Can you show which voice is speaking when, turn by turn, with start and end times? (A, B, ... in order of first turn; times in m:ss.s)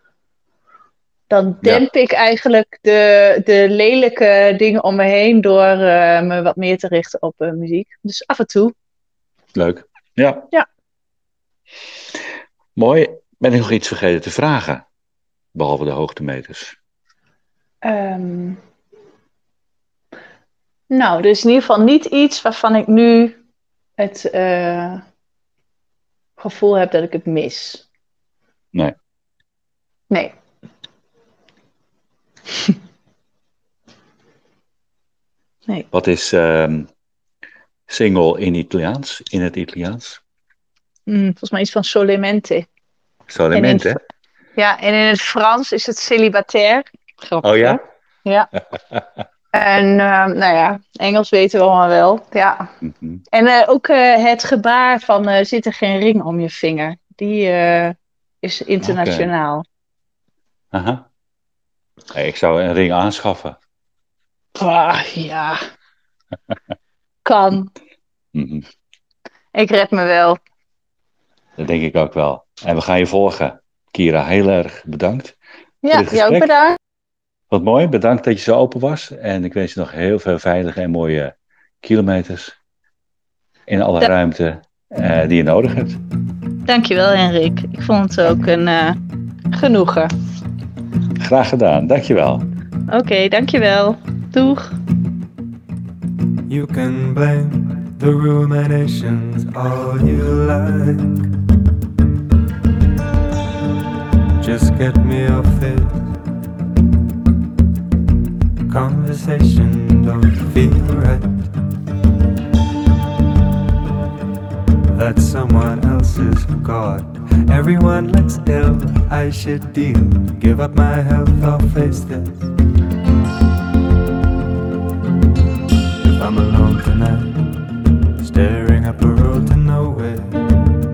0:01.3-0:08.7 A
0:01.6-0:01.9 B
0:09.6-0:10.5 B
0:12.8-0:14.8 B
0:15.6-0:16.8 B
0:17.8-0:18.6 A
0:20.9-0:23.4 A
0:24.0-0:25.0 A
0:26.4-0:27.8 A
0:30.1-0:30.4 A
0:35.9-0:36.9 B
0:37.9-0:40.2 B
0:41.1-0:42.7 A
0:43.3-0:44.0 B
0:43.5-0:44.0 A
0:44.6-0:48.5 A
0:47.4-0:47.8 B
0:49.5-0:52.7 A
0:52.8-0:53.2 B
0:53.3-0:59.6 A
0:58.8-0:59.3 B
1:00.7-1:01.0 B
1:02.1-1:03.6 B
1:04.6-1:05.6 A
1:07.2-1:07.7 A
1:08.3-1:08.6 B
1:09.5-1:10.4 A
1:11.6-1:15.4 B
1:15.8-1:16.8 A
1:15.9-1:16.5 B
1:17.5-1:22.6 B
1:23.7-1:26.0 B
1:26.7-1:29.0 A
1:29.5-1:30.1 A
1:31.2-1:32.5 B
1:32.9-1:34.8 A
1:36.5-1:41.3 C
1:44.4-1:46.2 C
1:48.7-1:51.5 C
1:54.9-2:02.5 C
2:06.0-2:07.6 C
2:08.2-2:10.6 C